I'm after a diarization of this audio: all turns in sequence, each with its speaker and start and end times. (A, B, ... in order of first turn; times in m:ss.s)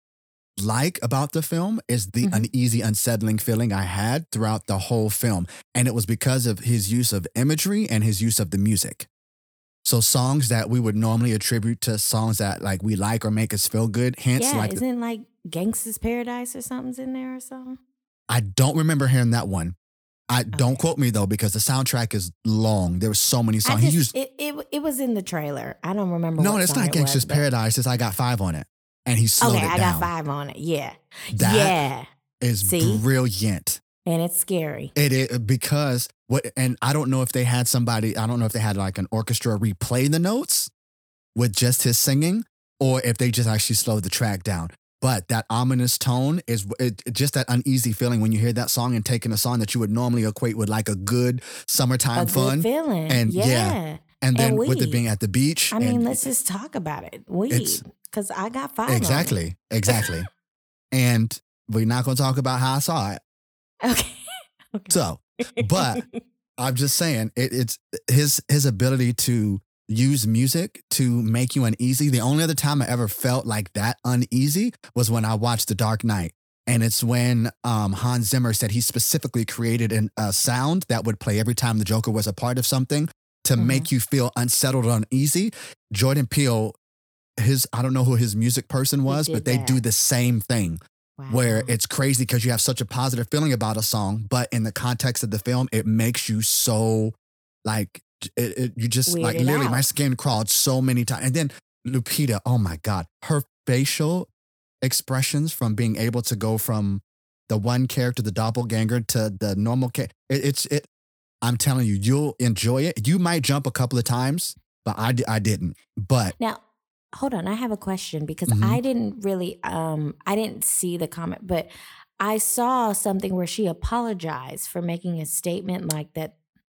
0:00.6-0:09.1 A
0:02.2-0:02.5 B
0:09.8-0:14.8 A
0:14.4-0:17.8 B
0:18.3-0:19.8 A
0:20.3-0:24.1 A
0:20.5-0:20.8 B
0:23.6-0:27.4 B
0:26.4-0:30.1 A
0:29.4-0:32.0 B
0:31.3-0:31.8 A
0:32.4-0:33.8 A
0:32.6-0:33.0 B
0:34.0-0:34.9 B
0:34.9-0:40.7 A
0:41.3-0:56.2 A
0:52.1-0:55.0 B
0:55.7-1:00.1 B
0:57.5-0:57.8 A
0:58.9-1:00.3 A
1:00.9-1:03.2 A
1:03.8-1:05.0 B
1:04.9-1:06.0 A
1:05.5-1:06.2 B
1:06.6-1:26.7 A
1:23.6-1:23.9 B
1:27.4-1:37.1 A
1:29.1-1:29.8 B
1:31.2-1:31.7 B
1:37.6-1:44.3 A
1:39.1-1:39.8 B
1:44.8-1:50.9 A
1:51.4-1:56.3 A
1:57.1-2:06.3 B
1:58.5-1:58.8 A